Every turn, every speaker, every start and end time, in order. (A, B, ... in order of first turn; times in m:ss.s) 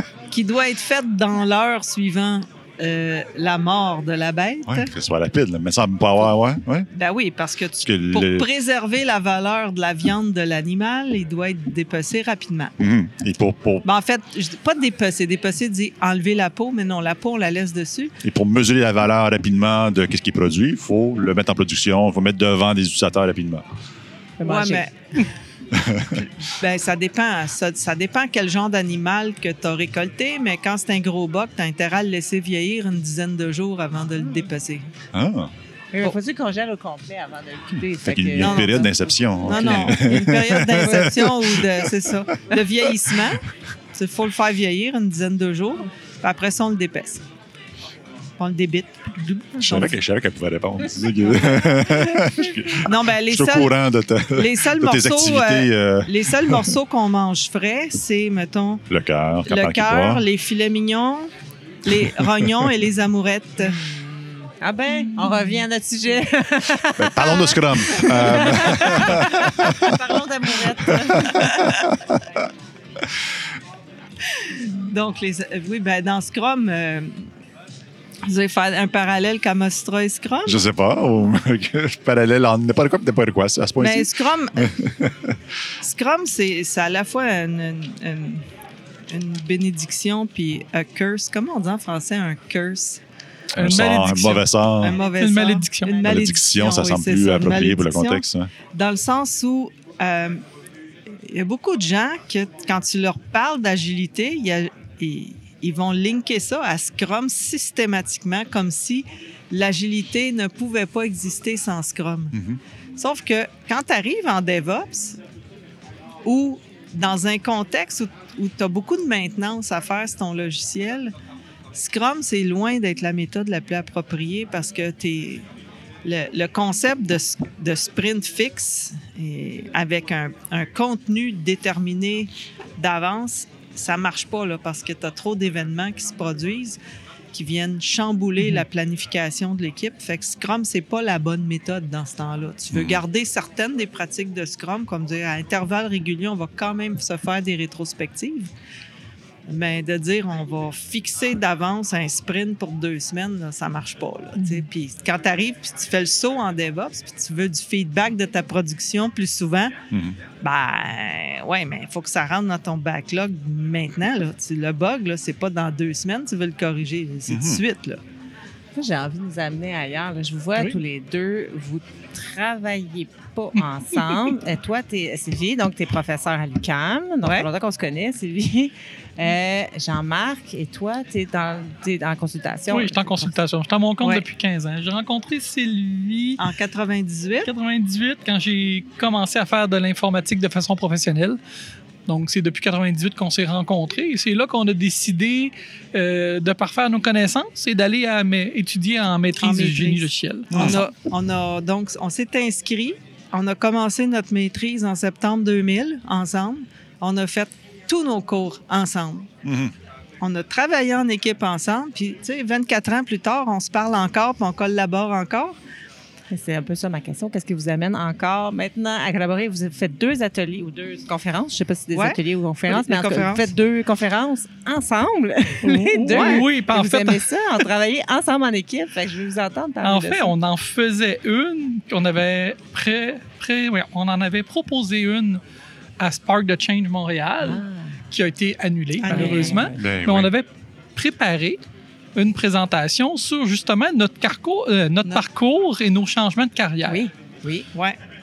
0:00.3-0:04.9 A
0:04.7-0:06.9 B
0:06.9-0:12.7 A
0:07.8-0:08.5 B
0:12.8-0:13.8 B
0:13.8-0:18.1 A
0:18.2-0:23.6 B
0:24.4-0:24.8 C
0:24.4-0:24.9 A
0:25.7-0:26.2 B
0:26.1-0:34.9 A
0:35.1-0:35.5 B
0:35.9-0:40.1 C
0:38.0-0:42.1 B
0:38.4-0:38.8 A
0:39.4-0:47.2 A
0:40.7-0:41.2 C
0:48.4-0:49.9 A
0:49.6-0:49.8 C
0:49.6-0:56.7 B
0:51.3-0:52.2 C
0:52.8-0:53.7 A
0:54.3-0:58.8 A
0:58.9-1:00.2 B
0:59.4-1:01.3 A
1:01.8-1:03.8 A
1:01.9-1:02.7 B
1:03.6-1:11.7 C
1:07.0-1:10.0 B
1:10.9-1:12.2 B
1:14.3-1:17.2 A
1:18.2-1:20.6 A
1:20.4-1:25.4 B
1:23.8-1:24.7 A
1:25.8-1:28.4 A
1:29.1-1:33.0 A
1:33.5-1:35.0 B
1:33.6-1:34.5 D
1:34.8-1:40.4 A
1:35.1-1:36.1 D
1:36.0-1:38.5 B
1:41.2-1:52.4 A
1:52.3-1:52.6 B
1:53.0-1:55.2 A
1:56.2-2:01.1 A
2:01.7-2:05.4 A
2:06.0-2:16.8 A
2:17.3-2:28.5 A
2:22.7-2:23.0 B
2:29.5-2:39.7 A
2:39.9-2:40.2 B
2:40.4-2:48.0 A
2:47.3-2:47.6 B
2:48.7-3:03.3 C
2:57.2-2:57.5 A
3:02.7-3:06.4 D
3:06.4-3:07.5 A
3:07.4-3:11.4 D
3:12.1-3:20.8 D
3:19.4-3:29.3 A
3:20.5-3:20.8 B
3:29.4-3:29.7 B
3:30.2-3:35.6 A
3:36.3-3:50.3 C
3:41.9-3:43.5 A
3:45.6-3:47.2 D
3:46.1-3:46.5 A
3:49.8-3:55.4 D
3:56.0-4:01.6 D
3:57.4-3:57.9 C
3:59.0-3:59.7 A
3:59.1-3:59.8 C
3:59.8-4:00.3 B
4:02.2-4:07.0 D
4:06.8-4:07.7 C